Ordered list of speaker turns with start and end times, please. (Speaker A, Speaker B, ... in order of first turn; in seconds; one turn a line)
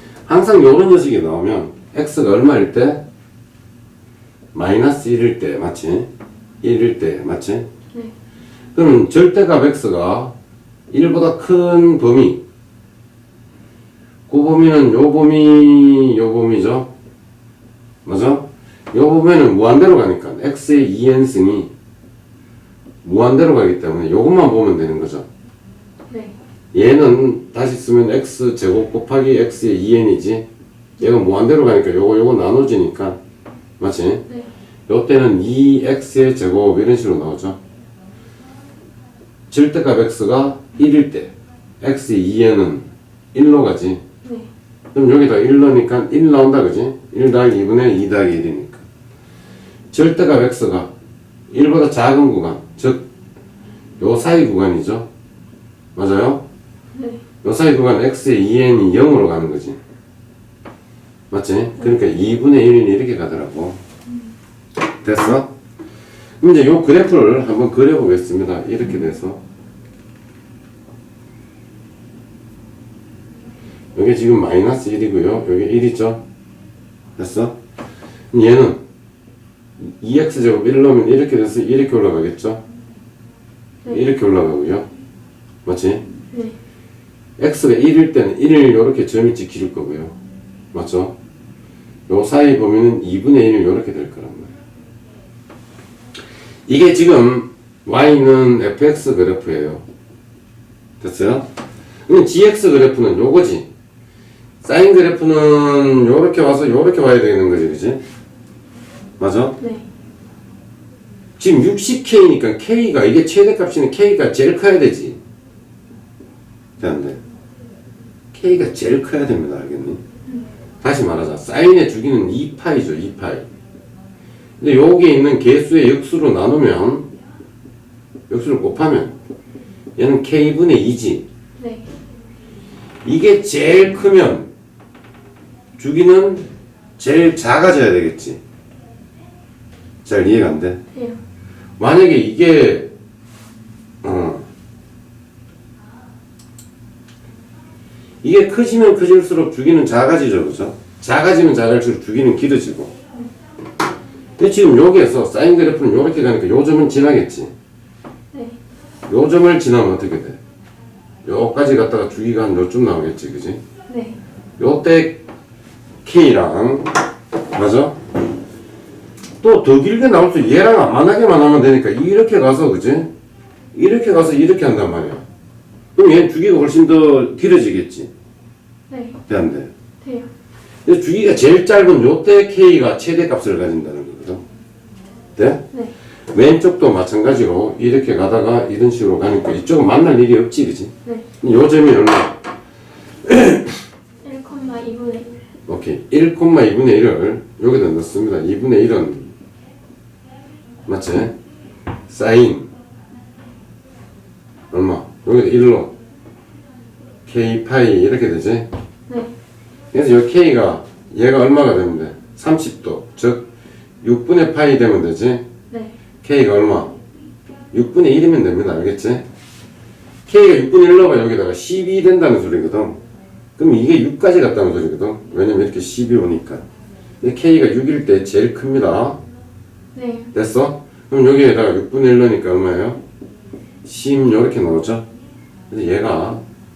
Speaker A: 0.2-3.0
Speaker A: 4.5-6.1
Speaker A: 6.6-7.7
Speaker A: 8.7-10.3
Speaker A: 10.9-12.4
Speaker A: 14.3-16.9
Speaker A: 18.0-21.7
Speaker A: 23.0-25.2
Speaker B: 26.1-26.3
Speaker A: 26.7-30.4
Speaker A: 31.0-33.2
Speaker A: 33.8-34.2
Speaker A: 34.9-37.6
Speaker A: 39.5-44.0
Speaker B: 44.2-44.5
Speaker A: 44.9-48.8
Speaker A: 49.9-50.9
Speaker A: 51.5-53.0
Speaker A: 54.0-55.0
Speaker A: 55.9-56.4
Speaker B: 56.9-57.2
Speaker A: 57.4-59.8
Speaker A: 61.3-63.8
Speaker A: 65.0-65.5
Speaker A: 66.4-69.4
Speaker A: 73.9-76.2
Speaker A: 77.2-77.5
Speaker A: 78.3-78.8
Speaker A: 79.8-82.6
Speaker A: 83.9-84.9
Speaker A: 85.6-86.0
Speaker A: 87.4-90.1
Speaker A: 90.7-91.1
Speaker A: 92.1-94.5
Speaker A: 96.7-99.8
Speaker A: 101.0-101.5
Speaker A: 102.1-103.7
Speaker A: 104.6-108.0
Speaker A: 109.2-109.6
Speaker B: 109.6-109.8
Speaker A: 111.4-115.2
Speaker A: 116.8-117.2
Speaker A: 118.3-120.0
Speaker A: 120.8-123.5
Speaker A: 124.6-127.1
Speaker A: 128.3-129.1
Speaker A: 130.0-131.2
Speaker B: 131.6-131.9
Speaker A: 133.0-134.5
Speaker A: 135.8-136.4
Speaker A: 137.0-138.4
Speaker A: 140.0-140.8
Speaker B: 140.9-141.2
Speaker A: 141.8-142.9
Speaker A: 144.0-144.4
Speaker A: 148.2-152.9
Speaker A: 154.4-157.5
Speaker A: 159.1-160.4
Speaker A: 161.2-163.6
Speaker B: 163.9-164.2
Speaker A: 164.6-165.2
Speaker A: 166.0-166.9
Speaker A: 167.5-168.0
Speaker A: 169.4-173.1
Speaker A: 173.7-175.2
Speaker A: 175.9-178.1
Speaker B: 178.9-179.2
Speaker A: 179.3-179.7
Speaker B: 180.0-180.3
Speaker A: 180.8-184.4
Speaker A: 185.4-185.6
Speaker A: 186.3-192.3
Speaker A: 193.2-193.8
Speaker B: 194.2-195.3
Speaker A: 195.7-199.3
Speaker A: 200.8-201.3
Speaker A: 202.1-202.7
Speaker A: 204.7-205.9
Speaker A: 207.2-208.7
Speaker A: 209.9-213.4
Speaker A: 214.0-215.4
Speaker A: 216.2-216.9
Speaker A: 217.7-219.2
Speaker A: 220.3-223.0
Speaker A: 223.6-226.6
Speaker A: 227.2-229.2
Speaker B: 229.9-230.3
Speaker A: 230.3-233.0
Speaker A: 233.8-235.0
Speaker A: 235.7-236.4